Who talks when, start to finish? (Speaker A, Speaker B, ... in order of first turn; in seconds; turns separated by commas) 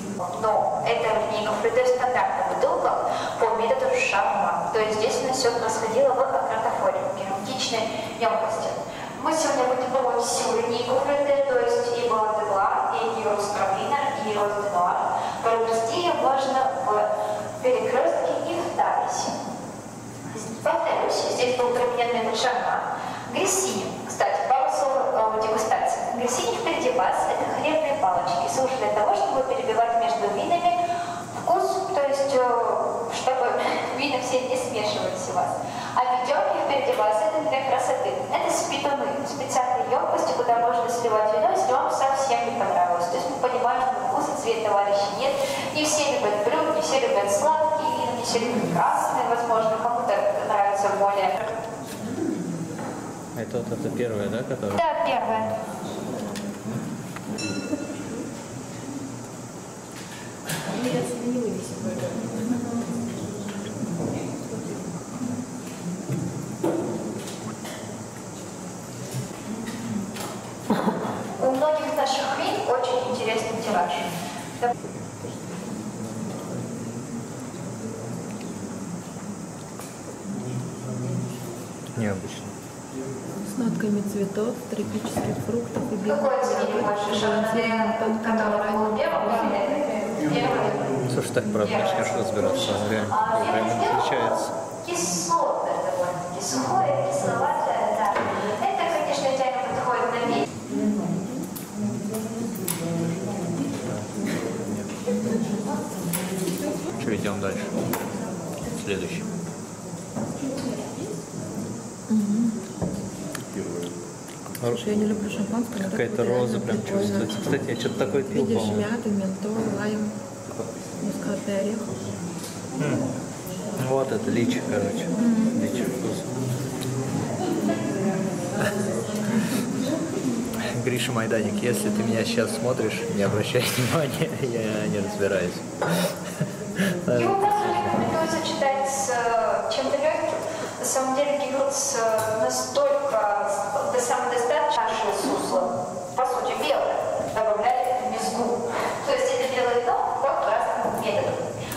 Speaker A: 0.2-19.4, Speaker A: 20.3-51.5, Speaker B: 53.4-54.8, Speaker A: 54.8-55.6, Speaker A: 71.3-74.7, Speaker B: 81.9-82.5, Speaker C: 83.4-89.6, Speaker A: 86.0-91.1, Speaker B: 91.1-94.5, Speaker A: 91.6-100.5, Speaker B: 107.0-107.8, Speaker B: 108.7-109.3, Speaker C: 112.1-112.6, Speaker C: 114.6-117.5, Speaker B: 115.8-118.9, Speaker C: 118.3-120.2, Speaker C: 121.0-121.9, Speaker B: 122.8-123.0, Speaker B: 123.8-126.4, Speaker C: 125.2-125.5, Speaker B: 130.6-136.2, Speaker B: 136.8-138.1, Speaker A: 137.1-151.5